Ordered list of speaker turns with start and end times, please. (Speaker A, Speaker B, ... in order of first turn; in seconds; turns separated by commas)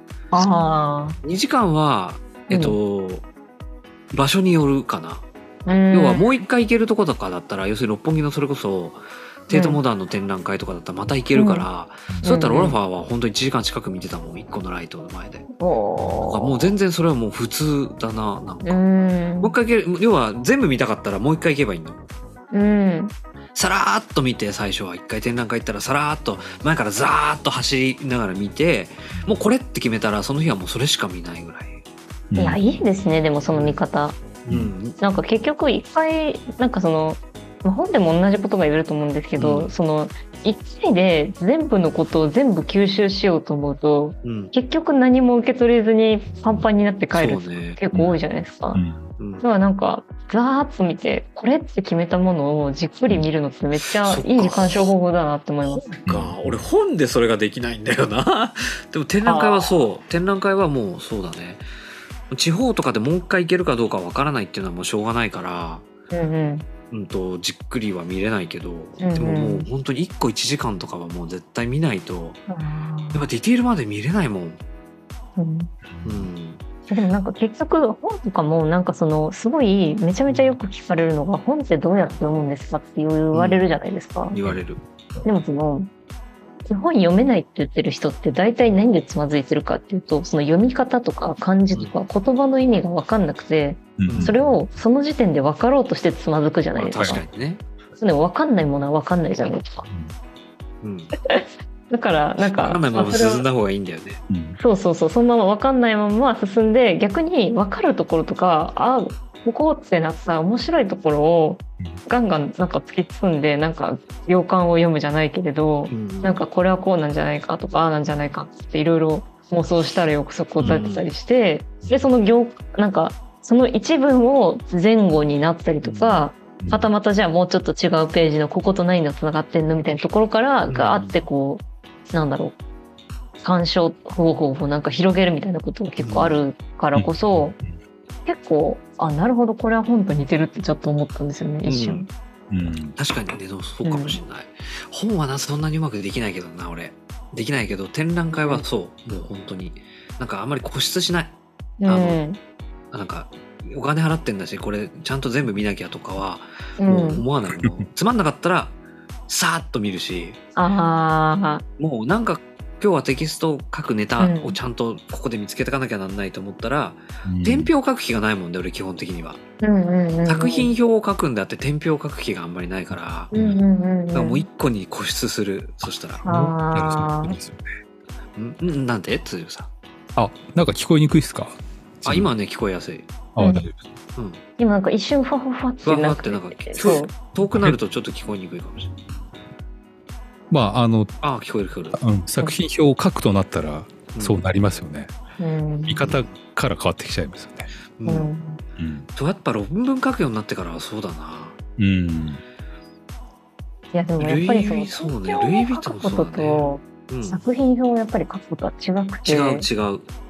Speaker A: 0.3-1.2, Speaker B: 1.2-3.3, Speaker A: 2.5-2.8, Speaker B: 4.1-5.3, Speaker A: 5.7-6.3, Speaker B: 5.9-15.5, Speaker A: 9.5-9.8, Speaker A: 11.3-11.7, Speaker A: 12.2-12.8, Speaker A: 15.6-16.7, Speaker B: 16.3-18.8, Speaker A: 18.6-19.6, Speaker B: 19.4-22.0, Speaker A: 22.5-23.1, Speaker B: 23.6-31.8, Speaker C: 32.3-32.6, Speaker A: 32.4-34.2, Speaker B: 33.5-33.8, Speaker B: 34.5-35.0, Speaker A: 35.0-48.8, Speaker B: 39.4-39.7, Speaker B: 44.2-44.5, Speaker B: 47.1-47.8, Speaker C: 47.9-48.2, Speaker C: 48.7-49.1, Speaker B: 49.2-49.5, Speaker A: 49.4-55.9, Speaker B: 53.8-54.9, Speaker B: 55.6-61.6, Speaker C: 56.1-56.6, Speaker A: 59.2-59.7, Speaker B: 62.3-65.8, Speaker A: 66.1-66.7, Speaker B: 66.9-72.5, Speaker A: 69.0-69.7, Speaker A: 72.5-73.2, Speaker B: 73.1-74.6, Speaker A: 75.4-75.7, Speaker C: 75.9-76.3, Speaker B: 76.0-76.6, Speaker A: 76.9-84.4, Speaker B: 83.3-83.7, Speaker B: 84.3-84.8, Speaker A: 85.2-85.9, Speaker A: 86.7-97.2, Speaker C: 94.0-94.4, Speaker B: 94.1-94.4, Speaker B: 96.8-97.6, Speaker C: 96.9-97.2, Speaker A: 98.0-99.9, Speaker B: 100.8-101.1, Speaker A: 101.2-103.5, Speaker B: 102.5-104.2, Speaker C: 104.3-104.6, Speaker A: 104.6-132.6, Speaker B: 115.9-116.4, Speaker B: 120.6-121.0, Speaker B: 125.8-126.2, Speaker C: 126.6-126.9, Speaker B: 130.7-131.2, Speaker A: 133.4-137.6, Speaker B: 136.0-136.4, Speaker C: 136.9-137.4, Speaker A: 138.3-142.1, Speaker B: 141.6-142.0, Speaker C: 142.5-142.9, Speaker B: 143.0-151.3, Speaker A: 143.8-144.2, Speaker A: 148.3-148.7, Speaker A: 151.8-152.4, Speaker B: 151.9-152.2, Speaker B: 152.9-158.8, Speaker A: 156.8-157.2, Speaker B: 159.3-160.4, Speaker A: 160.6-161.6, Speaker B: 161.8-169.4, Speaker A: 164.2-164.6, Speaker C: 167.2-167.7, Speaker A: 169.6-170.7, Speaker B: 170.3-173.3, Speaker A: 173.3-174.4, Speaker C: 173.3-173.6, Speaker B: 174.1-176.2, Speaker C: 176.2-177.6, Speaker A: 176.2-177.4, Speaker B: 178.4-179.7, Speaker C: 180.2-182.3, Speaker B: 182.1-183.1, Speaker C: 183.4-183.8, Speaker A: 183.4-183.7, Speaker B: 184.2-184.4, Speaker A: 184.6-187.1, Speaker B: 185.8-188.9, Speaker C: 187.4-187.8, Speaker C: 190.5-191.2, Speaker B: 191.2-192.0, Speaker C: 191.9-195.1, Speaker B: 194.1-194.4, Speaker A: 195.4-196.0, Speaker C: 195.9-197.7, Speaker B: 196.0-196.3, Speaker B: 198.0-198.3, Speaker A: 198.1-198.6, Speaker C: 198.8-199.1, Speaker B: 199.2-201.6, Speaker C: 201.8-202.4, Speaker A: 203.9-209.7, Speaker B: 204.2-207.4, Speaker B: 209.2-210.1